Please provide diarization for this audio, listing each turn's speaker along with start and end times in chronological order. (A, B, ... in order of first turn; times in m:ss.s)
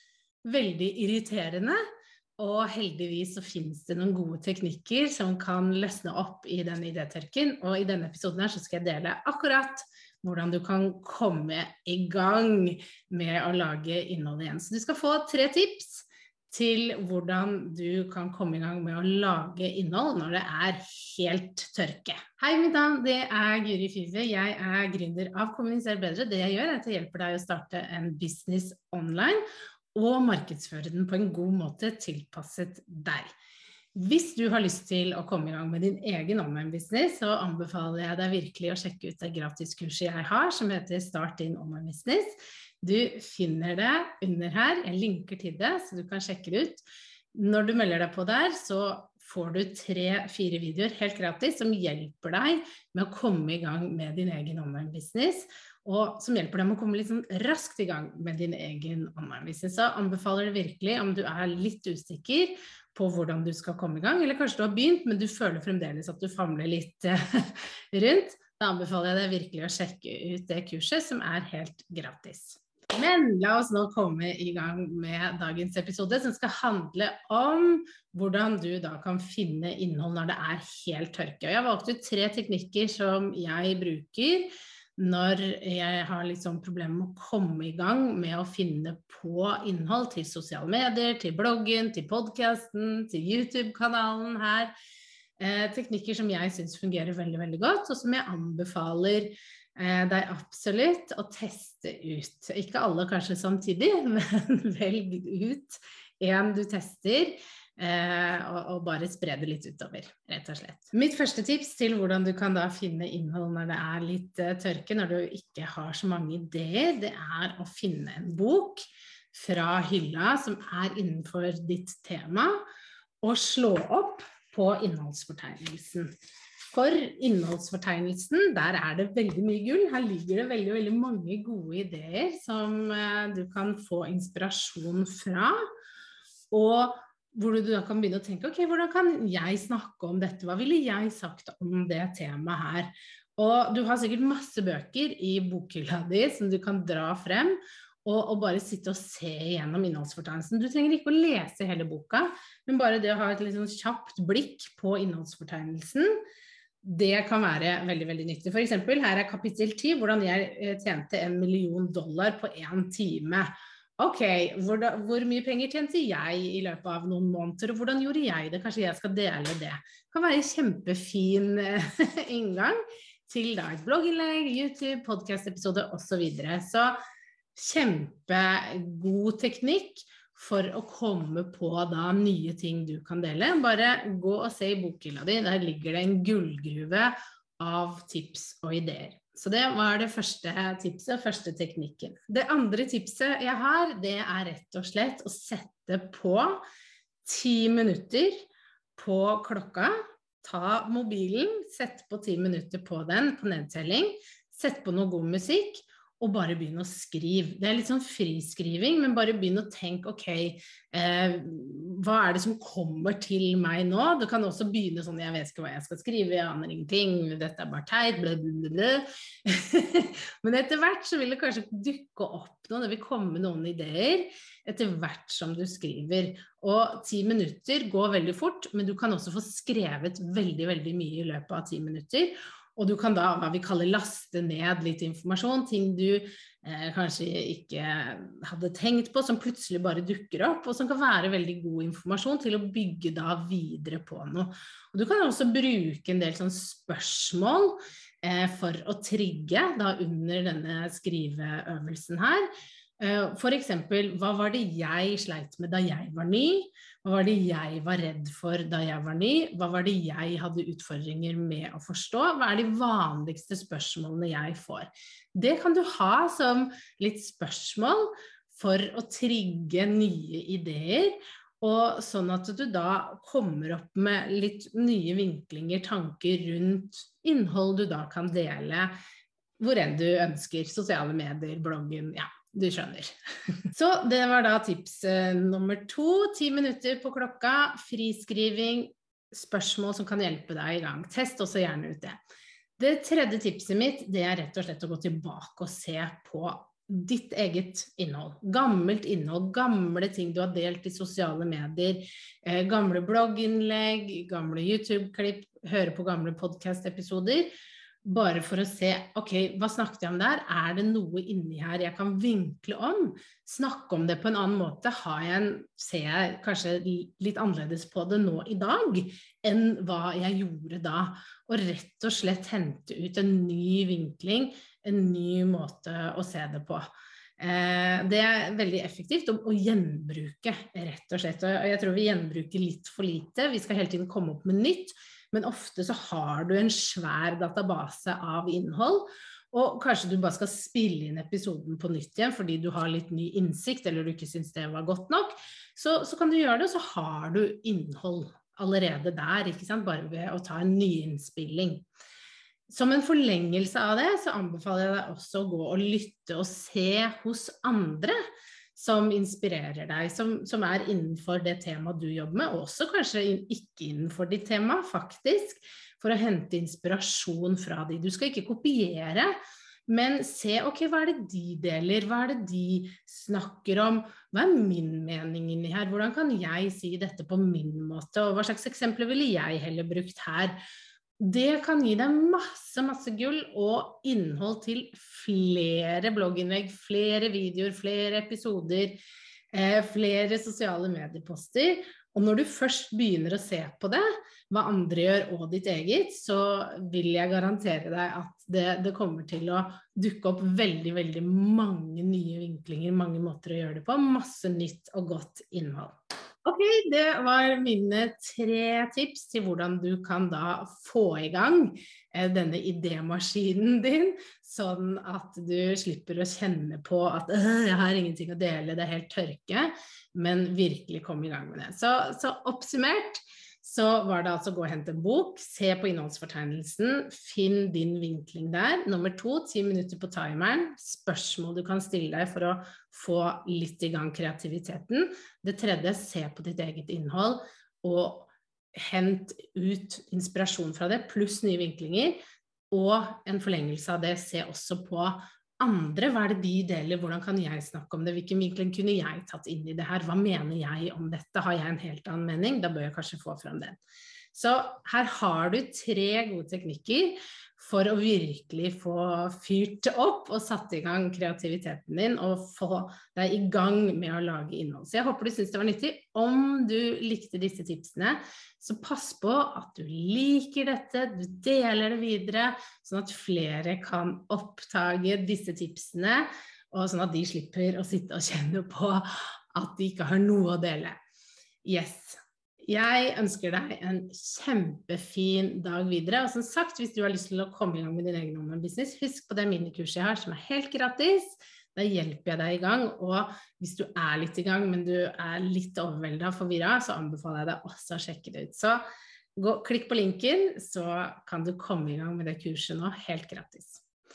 0:00.4-0:01.8 A
0:02.4-0:29.4 A
0:29.9-0:33.3 A
0:33.9-1:34.7 A
1:35.4-2:02.6 A
2:03.2-2:06.1 A
2:06.7-2:15.6 A
2:16.5-2:36.1 A
2:36.8-2:57.0 A
2:57.6-3:16.6 A
3:17.2-3:18.4 A
3:19.0-4:12.5 A
4:13.0-4:38.9 A
4:39.6-4:43.1 A
4:43.7-4:52.2 A
4:52.8-5:07.5 A
5:08.0-5:26.9 A
5:27.4-5:51.8 A
5:52.7-5:58.2 A
5:58.7-6:09.3 A
6:09.9-6:20.6 A
6:21.2-6:29.0 A
6:29.5-6:45.9 A
6:46.4-7:22.2 A
7:22.7-7:33.8 A
7:34.3-8:00.9 A
8:01.6-8:18.8 A
8:19.4-8:23.8 A